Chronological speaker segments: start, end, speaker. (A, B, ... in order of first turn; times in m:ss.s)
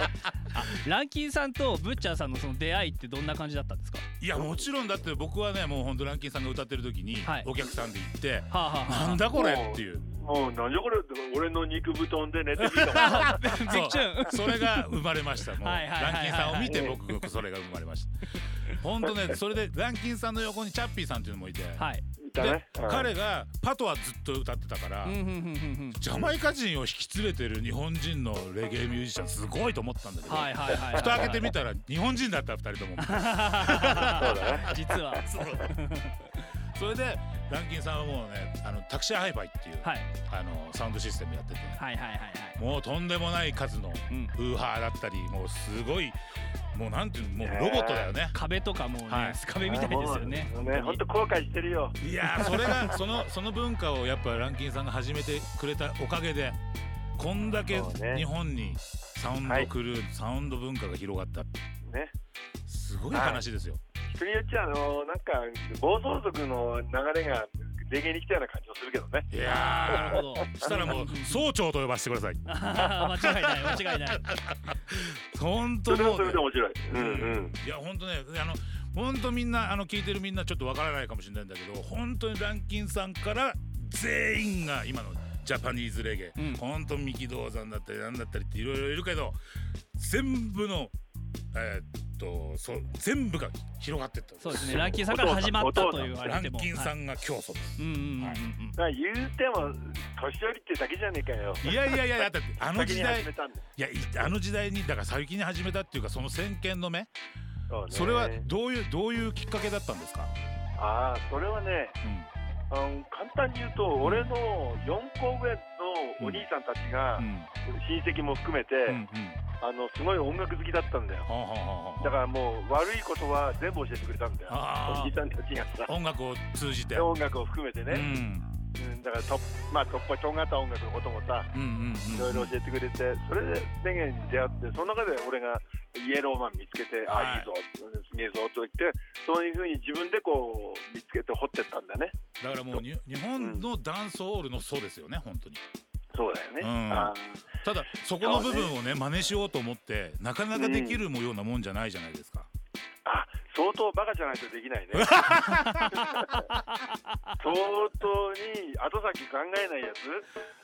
0:00.5-0:04.0 A
0:04.2-0:10.0 B
0:08.5-0:09.3 A
0:09.3-0:14.0 C
0:12.6-0:21.8 B
0:13.0-0:15.0 A
0:15.6-0:16.9 A
0:16.6-0:17.0 C
0:21.8-0:22.0 A
0:22.2-0:23.1 C
0:22.4-0:25.2 B
0:25.0-0:26.0 A
0:25.9-0:35.7 B
0:30.3-0:31.5 A
0:33.0-0:36.2 A
0:34.0-0:34.6 C
0:36.6-0:41.8 B
0:39.8-0:40.1 A
0:41.8-0:42.6 A
0:42.6-0:46.2 B
0:46.7-0:48.4 B
0:47.4-0:48.1 C
0:48.3-0:51.0 A
0:49.1-0:49.4 B
0:49.6-0:52.9 C
0:52.0-0:56.6 B
0:57.2-1:01.5 B
0:57.7-0:58.2 C
0:59.4-0:59.7 C
1:01.8-1:02.1 C
1:02.6-1:03.8 B
1:03.1-1:03.4 C
1:04.1-1:09.3 C
1:09.3-1:29.4 B
1:09.4-1:11.4 A
1:09.9-1:10.7 C
1:12.5-1:14.3 A
1:15.9-1:17.6 C
1:26.4-1:26.6 A
1:30.0-1:30.9 B
1:31.5-1:35.0 B
1:34.4-1:36.9 A
1:34.8-1:36.1 C
1:35.8-1:38.7 B
1:37.8-1:38.7 A
1:38.8-1:43.6 C
1:41.6-1:47.1 B
1:47.7-1:48.4 C
1:47.9-1:50.3 B
1:50.8-1:52.0 C
1:52.0-1:52.3 B
1:52.7-1:59.0 C
1:54.0-1:54.4 B
1:56.2-1:56.4 B
1:57.2-1:57.5 B
1:58.8-1:59.4 B
1:59.6-2:01.3 C
2:01.2-2:02.2 B
2:02.0-2:05.9 C
2:04.5-2:05.2 B
2:05.8-2:07.1 B
2:06.9-2:08.1 C
2:07.9-2:08.5 B
2:08.7-2:11.5 C
2:11.5-2:12.5 B
2:12.1-2:22.1 C
2:17.1-2:17.5 B
2:22.4-2:25.6 B
2:23.4-2:23.6 C
2:26.1-2:27.4 C
2:26.6-2:32.5 B
2:28.2-2:28.7 C
2:30.5-2:31.0 C
2:33.0-2:35.3 C
2:34.9-2:36.3 B
2:36.0-2:36.2 C
2:37.4-2:40.2 C